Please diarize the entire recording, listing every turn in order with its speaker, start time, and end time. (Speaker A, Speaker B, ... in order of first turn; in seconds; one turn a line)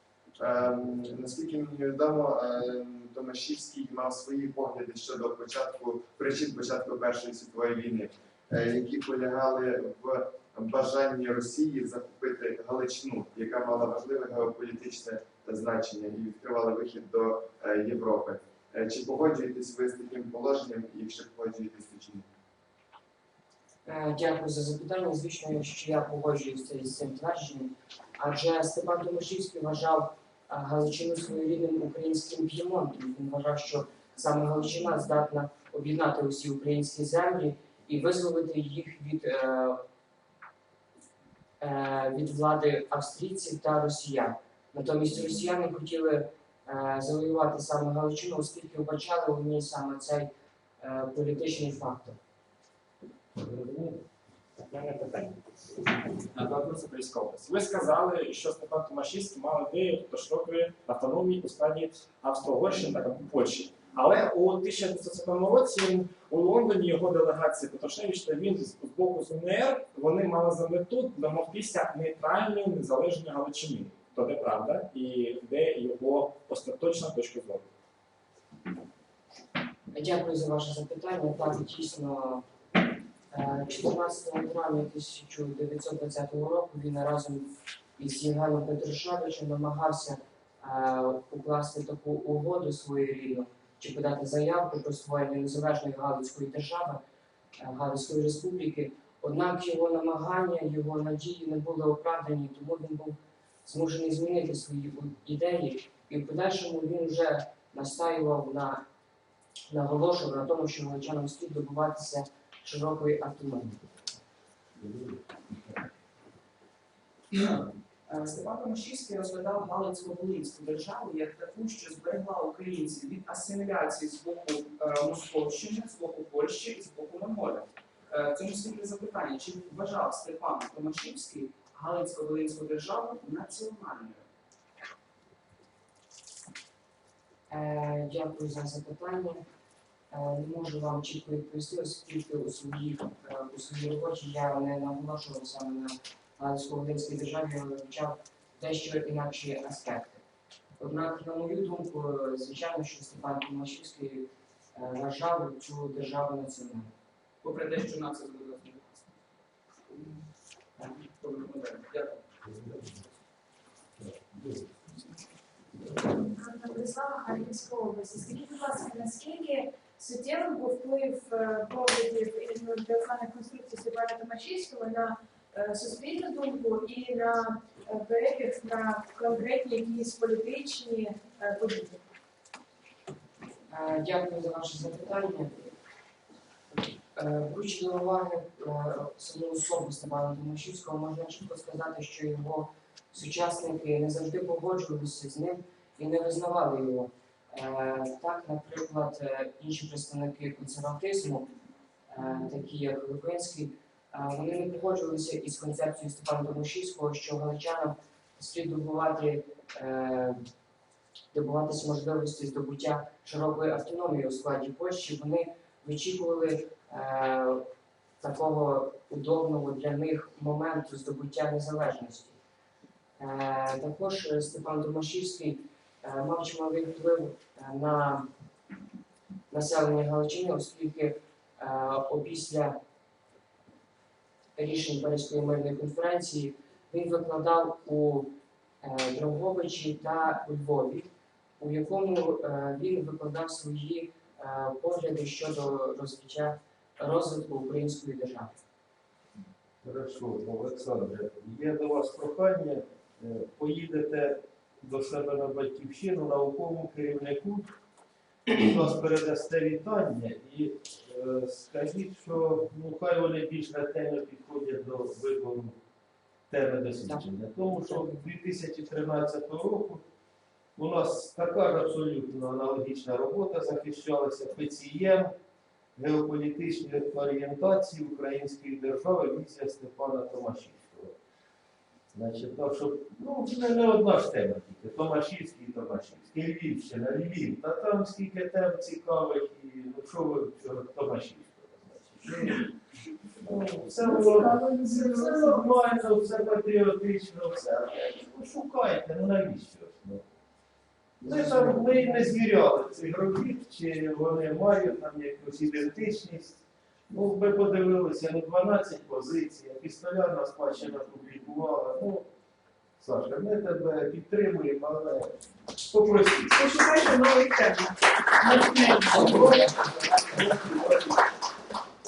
Speaker A: 0.4-22.3
Speaker B: 23.9-39.8
Speaker B: 41.6-52.2
Speaker C: 53.4-54.0
Speaker D: 54.7-55.4
Speaker D: 56.3-77.7
Speaker B: 79.9-82.5
Speaker B: 83.3-97.0
Speaker B: 97.6-108.8
Speaker B: 109.7-113.8
Speaker C: 114.8-115.5
Speaker E: 117.3-134.2
Speaker B: 137.5-139.4
Speaker B: 140.1-150.2
Speaker B: 150.8-156.9
Speaker E: 157.4-159.1
Speaker E: 160.8-163.0
Speaker C: 164.0-164.7
Speaker F: 165.9-182.0
Speaker B: 183.7-185.7
Speaker B: 187.2-201.5
Speaker B: 202.1-210.4
Speaker B: 211.3-217.6
Speaker B: 218.2-222.4
Speaker B: 223.2-228.3
Speaker B: 229.5-232.8
Speaker B: 234.6-248.6
Speaker C: 249.8-257.7
Speaker C: 258.5-265.8
Speaker C: 266.5-270.0
Speaker B: 267.8-268.2
Speaker C: 270.8-275.4
Speaker C: 276.0-281.2
Speaker C: 282.1-292.7
Speaker C: 293.4-300.2
Speaker F: 294.1-295.5
Speaker C: 301.2-312.3
Speaker C: 313.0-316.6
Speaker F: 316.6-317.9
Speaker C: 318.5-321.3